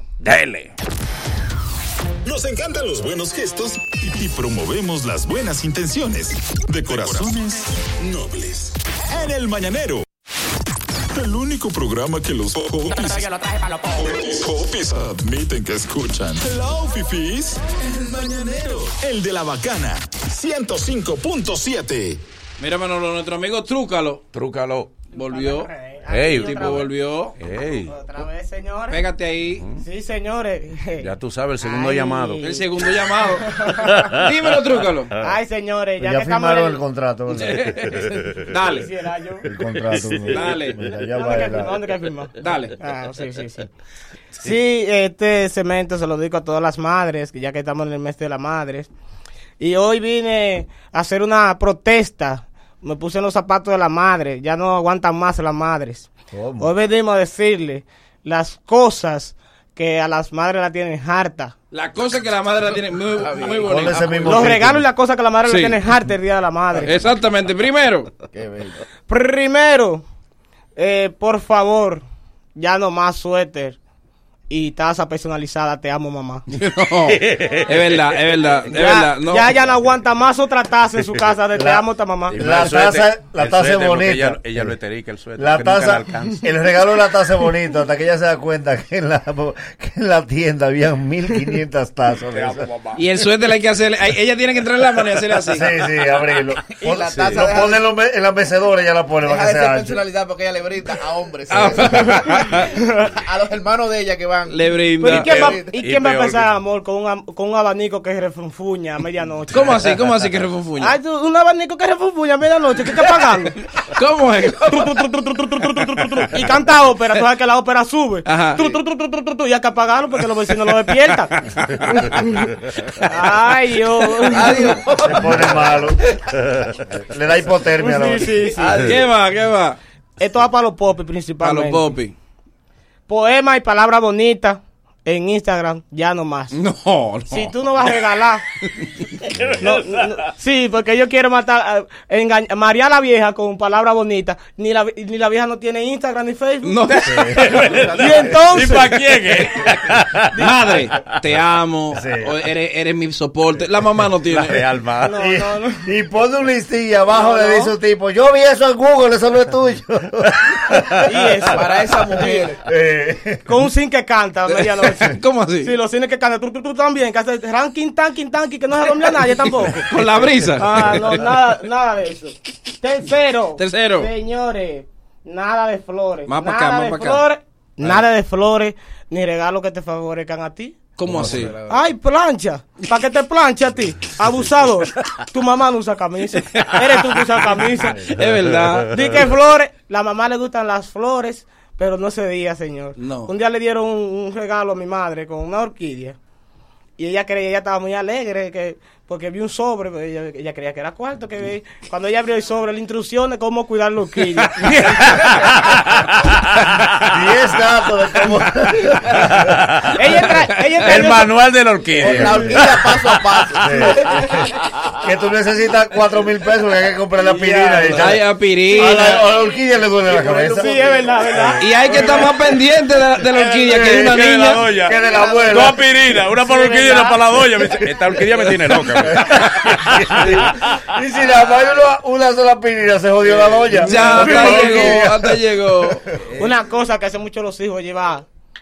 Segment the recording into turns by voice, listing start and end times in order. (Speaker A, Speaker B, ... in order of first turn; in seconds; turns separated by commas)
Speaker A: 0.2-0.7, Speaker B: 2.2-10.0, Speaker B: 11.1-13.4, Speaker B: 13.9-22.2, Speaker C: 22.6-24.2, Speaker A: 24.3-25.0, Speaker C: 25.1-27.3, Speaker D: 25.2-26.9, Speaker A: 26.1-26.8, Speaker A: 27.4-27.9, Speaker D: 27.6-29.1, Speaker C: 28.9-29.6, Speaker D: 29.8-31.1, Speaker A: 31.0-32.4, Speaker D: 31.6-33.9, Speaker C: 32.4-33.5, Speaker A: 33.8-34.2, Speaker C: 34.1-35.1, Speaker D: 35.2-36.8, Speaker E: 36.0-37.9, Speaker C: 37.4-38.9, Speaker A: 37.9-38.4, Speaker D: 38.7-39.6, Speaker E: 39.4-41.8, Speaker C: 40.3-40.8, Speaker D: 41.1-43.7, Speaker C: 42.4-42.7, Speaker D: 44.4-48.9, Speaker D: 49.6-56.1, Speaker E: 56.3-56.7, Speaker D: 56.6-61.5, Speaker C: 61.7-64.6, Speaker F: 63.1-64.0, Speaker E: 63.6-64.8, Speaker D: 64.2-67.0, Speaker C: 65.4-65.9, Speaker C: 66.8-68.1, Speaker F: 68.3-68.8, Speaker D: 69.1-70.0, Speaker D: 70.8-72.0, Speaker D: 72.6-73.8, Speaker D: 74.5-76.4, Speaker C: 76.5-79.8, Speaker A: 77.1-78.1, Speaker D: 78.7-82.3, Speaker A: 81.0-81.3, Speaker E: 81.5-84.7, Speaker A: 82.3-86.5, Speaker E: 85.4-92.7, Speaker A: 92.3-93.0, Speaker C: 92.9-95.7, Speaker E: 95.5-100.0, Speaker F: 96.8-97.8, Speaker A: 97.1-97.4, Speaker F: 99.2-105.8, Speaker C: 101.5-102.6, Speaker C: 104.5-105.3, Speaker A: 105.0-106.5, Speaker D: 105.2-110.0, Speaker C: 109.5-110.9, Speaker D: 110.8-113.5, Speaker C: 114.0-115.1, Speaker D: 114.7-121.3, Speaker C: 118.2-118.7, Speaker C: 121.1-121.9, Speaker D: 123.1-125.5, Speaker F: 124.3-124.8, Speaker E: 125.0-126.0, Speaker E: 127.0-128.4, Speaker D: 127.8-128.9, Speaker C: 128.6-129.8, Speaker D: 130.2-131.9, Speaker C: 131.4-132.1, Speaker D: 133.1-136.5, Speaker C: 136.5-137.5, Speaker D: 137.3-138.4, Speaker A: 139.3-140.2, Speaker D: 139.6-147.1, Speaker C: 146.6-147.5, Speaker E: 147.1-147.4, Speaker A: 147.4-150.3, Speaker F: 147.8-148.7, Speaker D: 148.0-149.0, Speaker C: 150.4-154.7, Speaker E: 151.9-152.3, Speaker A: 154.3-155.1, Speaker D: 155.0-155.9, Speaker E: 155.2-161.0, Speaker D: 157.1-157.7, Speaker D: 161.0-161.6, Speaker F: 161.5-162.6, Speaker D: 162.2-162.5, Speaker E: 162.6-163.4, Speaker D: 163.5-169.9, Speaker C: 164.5-165.7, Speaker C: 169.1-171.3, Speaker D: 170.6-180.8, Speaker C: 173.6-174.1, Speaker C: 176.3-177.2, Speaker C: 180.9-181.6, Speaker F: 181.0-181.8, Speaker D: 181.7-188.0, Speaker C: 188.0-188.9, Speaker D: 188.9-196.2, Speaker C: 192.9-193.3, Speaker D: 197.0-204.6, Speaker A: 204.6-207.1, Speaker E: 207.1-209.5, Speaker A: 209.2-209.9, Speaker D: 210.0-211.3, Speaker A: 210.8-213.2, Speaker F: 212.0-214.2, Speaker E: 212.0-212.8, Speaker E: 213.6-214.4, Speaker E: 215.0-222.2, Speaker D: 217.3-217.7, Speaker C: 217.9-219.2, Speaker D: 220.1-221.6, Speaker F: 220.2-221.0, Speaker C: 221.6-224.6, Speaker A: 223.5-230.5, Speaker E: 223.7-225.8, Speaker D: 225.2-225.4, Speaker D: 226.4-227.7, Speaker E: 228.9-235.4, Speaker F: 233.4-234.1, Speaker C: 233.8-236.4, Speaker A: 234.1-234.9, Speaker D: 236.4-238.2